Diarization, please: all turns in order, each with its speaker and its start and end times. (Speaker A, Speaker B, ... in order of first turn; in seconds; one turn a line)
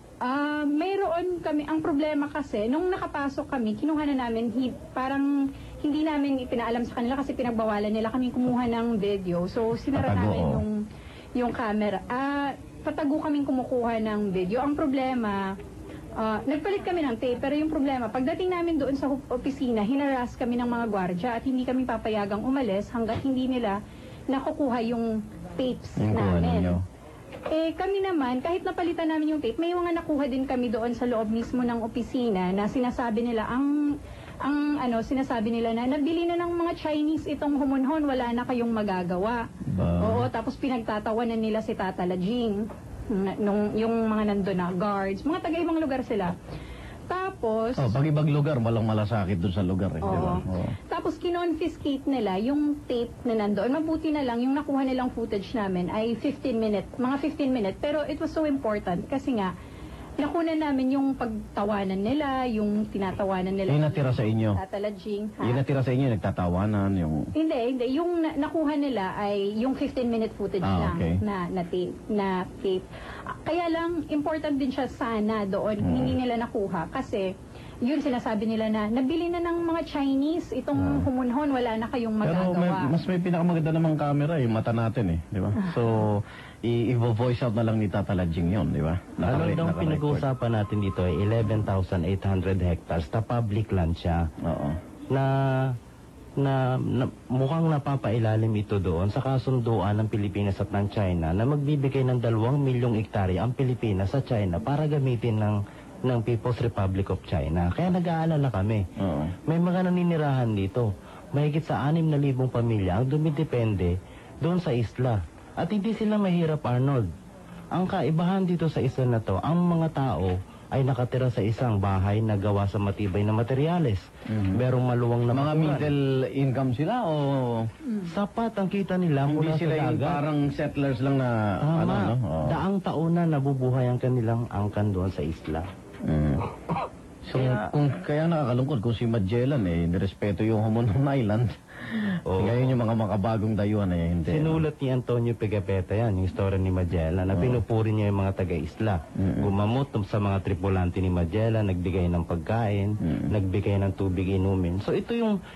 Speaker A: 0.2-5.3
Speaker A: 5.8-10.8
Speaker B: 9.9-10.6
Speaker A: 11.3-15.4
Speaker A: 16.2-23.8
Speaker A: 24.3-26.8
Speaker B: 26.0-26.8
Speaker A: 27.5-39.4
Speaker B: 39.7-40.3
Speaker A: 40.0-46.3
Speaker A: 47.1-47.9
Speaker B: 47.8-50.7
Speaker A: 50.0-59.5
Speaker A: 60.2-65.6
Speaker B: 63.7-64.6
Speaker B: 65.4-67.3
Speaker A: 67.3-77.3
Speaker B: 70.6-71.2
Speaker B: 75.8-76.2
Speaker A: 77.8-82.9
Speaker B: 80.8-81.1
Speaker B: 82.2-90.3
Speaker C: 89.2-94.2
Speaker B: 94.4-94.8
Speaker C: 95.1-95.7
Speaker C: 96.4-108.8
Speaker B: 109.0-109.3
Speaker C: 109.5-117.1
Speaker C: 117.7-125.9
Speaker B: 124.3-124.6
Speaker B: 125.3-127.7
Speaker A: 127.8-128.1
Speaker C: 128.0-130.2
Speaker B: 129.2-132.6
Speaker C: 131.6-135.7
Speaker B: 136.0-136.4
Speaker B: 137.2-144.6
Speaker C: 142.3-142.7
Speaker C: 144.3-155.4
Speaker B: 147.3-147.6
Speaker B: 149.1-149.5
Speaker B: 153.0-153.3